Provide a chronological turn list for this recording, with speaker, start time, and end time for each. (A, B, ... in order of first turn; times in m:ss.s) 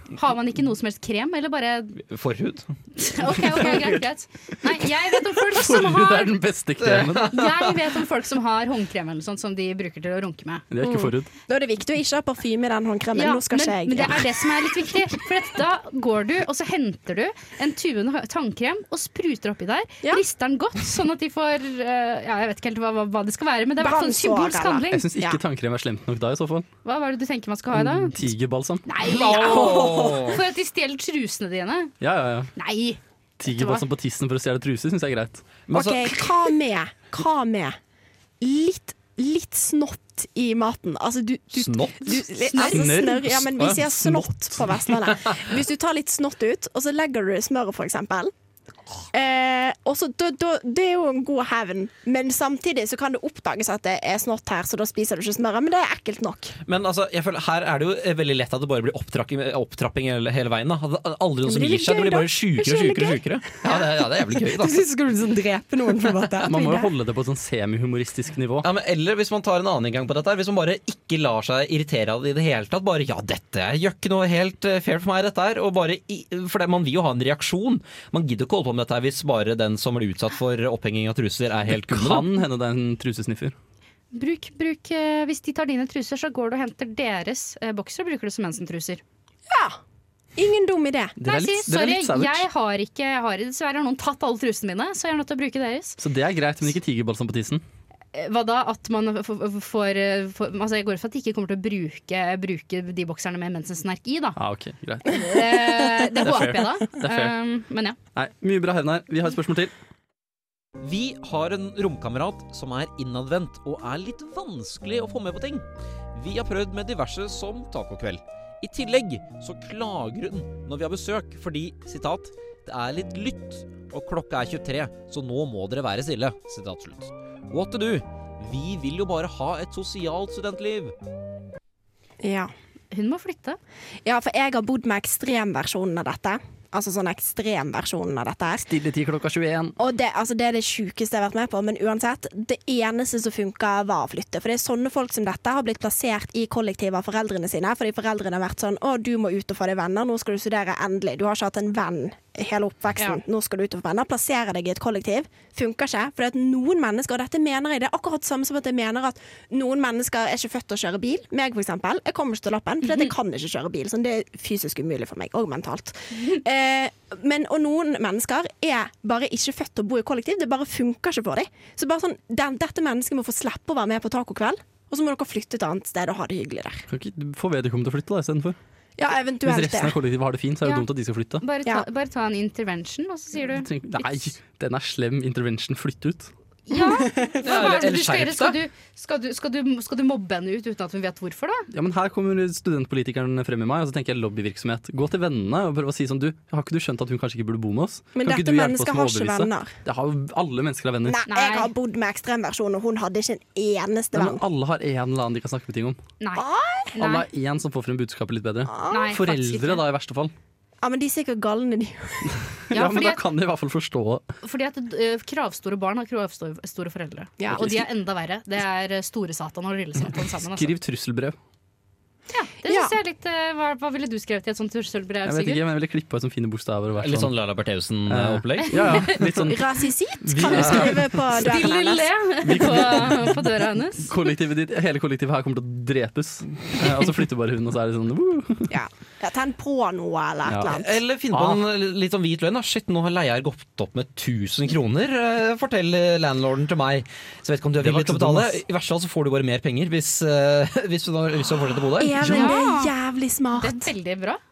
0:00.1-0:02.0 A
0:02.1-0:02.7 B
0:03.0-0:06.4 A
0:03.6-0:04.0 C
0:05.5-0:07.4 C
0:06.8-0:07.6 B
0:07.2-0:10.6 A
0:10.7-0:11.3 C
0:10.8-0:14.4 D
0:13.2-0:25.0 A
0:23.8-0:25.4 D
0:24.9-0:26.7 C
0:26.8-0:28.3 A
0:27.7-0:28.9 C
0:28.9-0:31.9 A
0:29.0-0:30.4 B
0:32.0-0:32.5 C
0:32.6-0:33.8 A
0:33.4-0:35.4 C
0:35.7-0:36.3 B
0:35.7-0:37.8 D
0:38.4-0:48.3 D
0:41.5-0:42.2 B
0:42.5-0:44.6 C
0:49.1-0:56.6 D
0:56.7-1:04.8 B
1:01.4-1:06.9 D
1:06.4-1:08.7 C
1:08.6-1:22.3 B
1:21.7-1:23.6 C
1:24.1-1:29.0 A
1:29.5-1:29.8 D
1:30.4-1:31.2 D
1:31.2-1:32.5 C
1:31.2-1:36.0 A
1:36.0-1:37.6 C
1:38.1-1:44.4 A
1:44.4-1:47.4 C
1:45.1-1:48.0 A
1:48.2-1:49.7 C
1:50.8-2:10.9 E
2:12.2-2:12.5 D
2:12.9-2:13.6 A
2:14.0-2:18.7 D
2:18.6-2:19.8 C
2:19.8-2:56.9 D
2:56.9-2:58.6 C
2:59.0-3:00.0 D
2:59.4-3:01.4 C
3:01.4-3:04.2 A
3:03.5-3:06.3 C
3:06.7-3:11.7 A
3:06.7-3:07.5 D
3:07.4-3:08.6 B
3:11.7-3:21.2 C
3:18.2-3:19.7 D
3:21.0-3:24.4 D
3:21.3-3:21.7 A
3:24.1-3:26.0 C
3:26.2-3:27.3 A
3:26.4-3:27.0 D
3:27.0-3:30.3 C
3:28.7-3:29.2 D
3:28.9-3:29.8 A
3:30.8-3:32.4 D
3:32.7-3:34.3 C
3:32.7-3:33.2 A
3:34.4-3:40.7 A
3:37.4-3:37.8 D
3:40.4-3:41.4 C
3:42.3-3:45.6 A
3:42.6-3:43.0 D
3:45.2-3:47.3 C
3:47.0-3:49.1 B
3:48.1-3:49.6 C
3:48.7-3:49.2 A
3:49.4-3:52.1 D
3:50.2-3:51.4 C
3:51.3-3:54.1 A
3:52.4-3:58.8 C
3:58.7-4:01.0 D
4:00.5-4:00.8 C
4:00.7-4:12.2 B
4:01.3-4:01.6 C
4:07.8-4:08.6 C
4:12.0-4:13.9 D
4:12.2-4:12.9 A
4:12.2-4:12.6 C
4:13.6-4:14.4 A